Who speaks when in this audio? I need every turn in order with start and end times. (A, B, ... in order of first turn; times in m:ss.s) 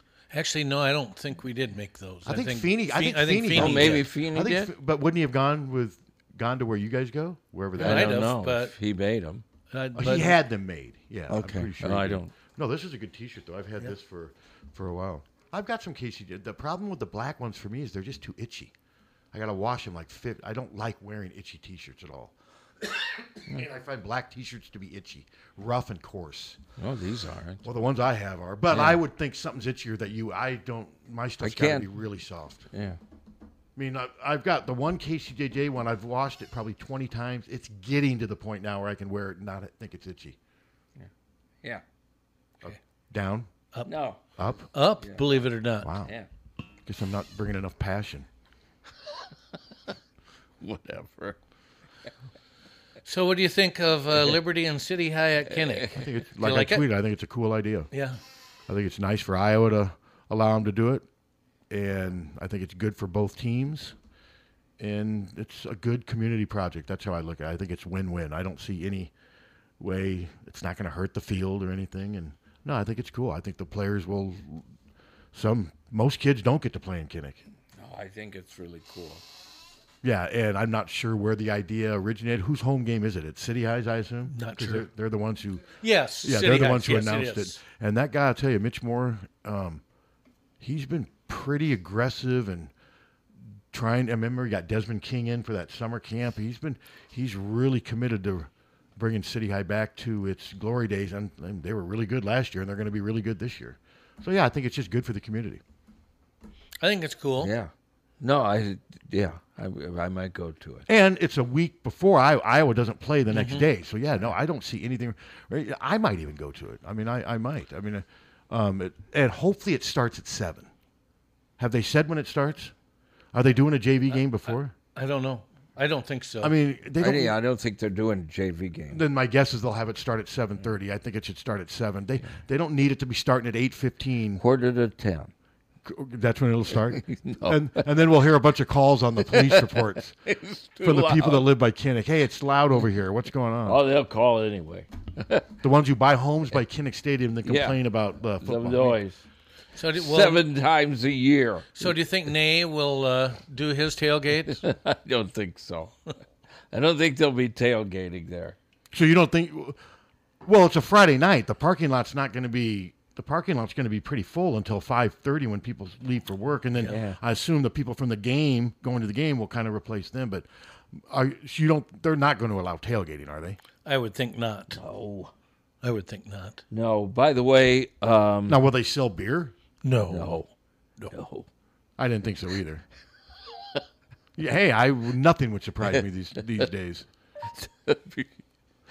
0:00.3-0:04.0 A
0:02.2-0:08.2 B
0:03.5-0:04.7 C
0:07.8-0:08.7 A
0:07.8-0:09.4 C
0:09.7-0:10.4 A
0:09.9-0:18.7 B
0:11.3-0:12.3 C
0:19.3-0:22.3 B
0:23.4-0:26.6 B
0:26.8-0:27.6 C
0:27.6-0:32.6 B
0:28.7-0:29.0 C
0:31.4-0:31.9 C
0:32.7-0:33.0 C
0:33.8-0:40.4 B
0:42.6-0:43.5 B
0:43.8-0:44.2 C
0:44.4-0:44.7 B
0:44.7-0:45.9 A
0:45.0-0:45.5 C
0:45.8-0:46.1 B
0:46.8-0:48.3 B
0:50.6-0:51.4 C
0:53.0-0:56.8 A
0:55.9-0:57.9 B
0:57.9-0:58.2 A
0:58.7-1:01.0 B
1:01.7-1:03.9 B
1:04.8-1:09.1 B
1:09.8-1:14.6 B
1:15.3-1:17.4 B
1:17.8-1:19.2 C
1:20.0-1:29.8 B
1:24.3-1:24.9 A
1:25.8-1:27.6 A
1:30.6-1:32.7 B
1:33.7-1:45.6 B
1:46.8-1:47.5 A
1:47.4-1:47.7 C
1:48.2-1:50.8 C
1:50.9-2:00.7 B
1:53.3-1:53.7 A
2:01.6-2:02.7 B
2:03.3-2:04.7 B
2:04.9-2:06.5 A
2:06.4-2:07.4 B
2:07.0-2:09.0 C
2:08.9-2:14.4 B
2:14.4-2:15.3 C
2:15.8-2:20.1 B
2:17.0-2:17.8 C
2:19.3-2:21.5 C
2:20.8-2:23.8 B
2:23.6-2:25.5 C
2:25.6-2:29.0 B
2:27.4-2:27.8 C
2:28.4-2:29.2 C
2:29.8-2:30.4 A
2:29.9-2:31.9 C
2:31.8-2:34.6 A
2:34.4-2:35.9 C
2:36.7-2:38.6 C
2:38.9-2:39.8 B
2:40.4-2:53.6 B
2:46.9-2:47.2 C
2:53.8-2:54.8 A
2:54.7-2:55.3 C
2:55.8-2:56.6 A
2:56.7-2:58.6 C
2:58.5-2:59.5 B
2:59.8-3:00.4 A
3:00.1-3:00.5 C
3:01.1-3:01.4 C
3:02.0-3:02.8 B
3:04.4-3:07.0 B
3:07.6-3:08.4 C